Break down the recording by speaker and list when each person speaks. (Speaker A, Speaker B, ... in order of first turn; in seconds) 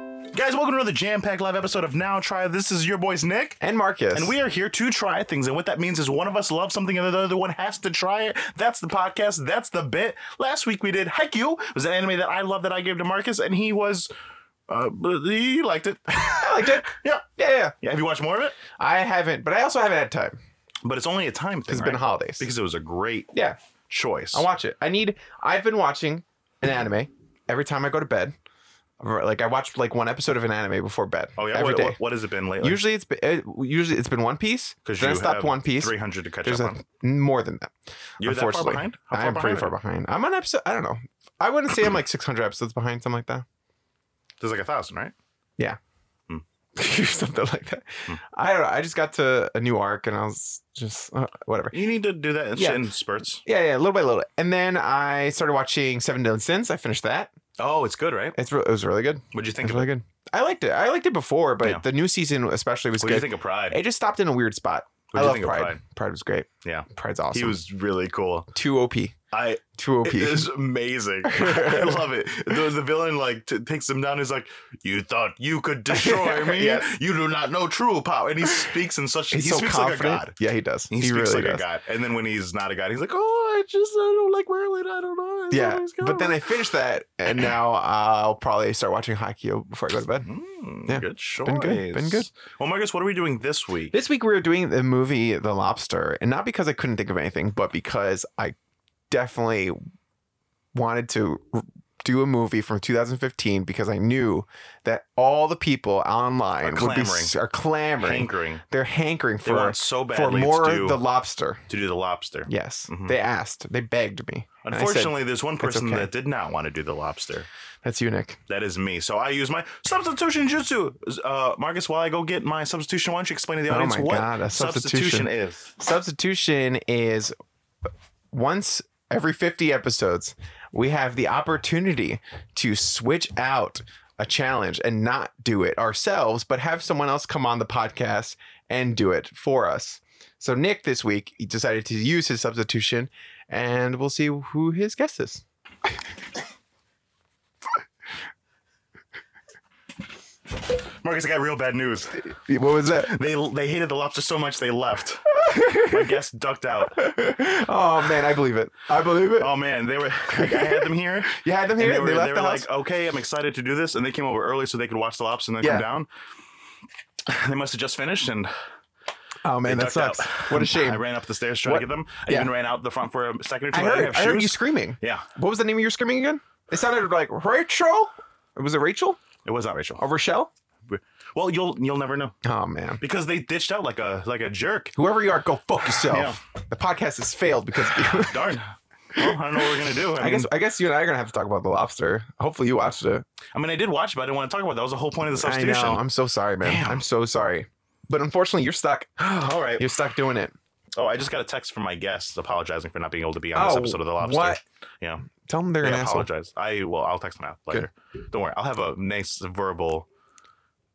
Speaker A: 0.3-3.6, 4.1-14.1, 14.7-17.2, 17.8-18.6, 20.8-23.3, 23.9-24.4, 31.4-32.8, 34.8-36.8, 38.2-39.7, 44.4-45.1, 51.7-53.4, 57.6-58.4, 59.3-59.9, 63.0-63.8, 65.1-65.8, 66.6-68.5, 69.3-80.3, 80.9-86.5, 90.2-93.9, 106.6-107.3, 108.0-108.6, 109.4-111.0, 111.7-113.1, 114.6-117.5, 118.5-125.7, 150.7-152.2, 152.9-157.0, 159.3-166.1, 167.2-168.5, 169.6-175.3, 179.4-180.1, 180.8-182.3, 183.0-184.9, 185.8-186.4, 187.9-190.5, 193.5-196.0, 196.6-197.0, 199.3-199.9, 200.9-205.2, 205.8-210.1
Speaker B: 3.6-4.3, 16.1-17.7, 18.8-20.4, 21.7-22.5, 24.3-28.3, 29.0-32.0, 32.6-43.4, 46.8-51.8, 52.5-52.8, 53.4-57.3, 58.3-67.6, 68.5-69.1, 69.8-70.5, 71.2-72.6, 75.9-76.9, 79.3-81.6, 85.5-90.3, 90.9-92.3, 93.9-98.5, 99.1-99.8, 100.7-111.7, 112.5-116.1, 117.8-118.4, 123.7-127.3, 128.3-145.4, 152.2-153.1, 155.4-156.2, 156.9-159.5, 160.3-162.7, 165.6-165.8, 169.4-171.1, 171.6-172.5, 173.7-179.2, 180.0-180.5, 182.4-183.0, 184.9-188.6, 190.1-193.2, 195.4-200.5, 203.5-204.6, 205.4-206.3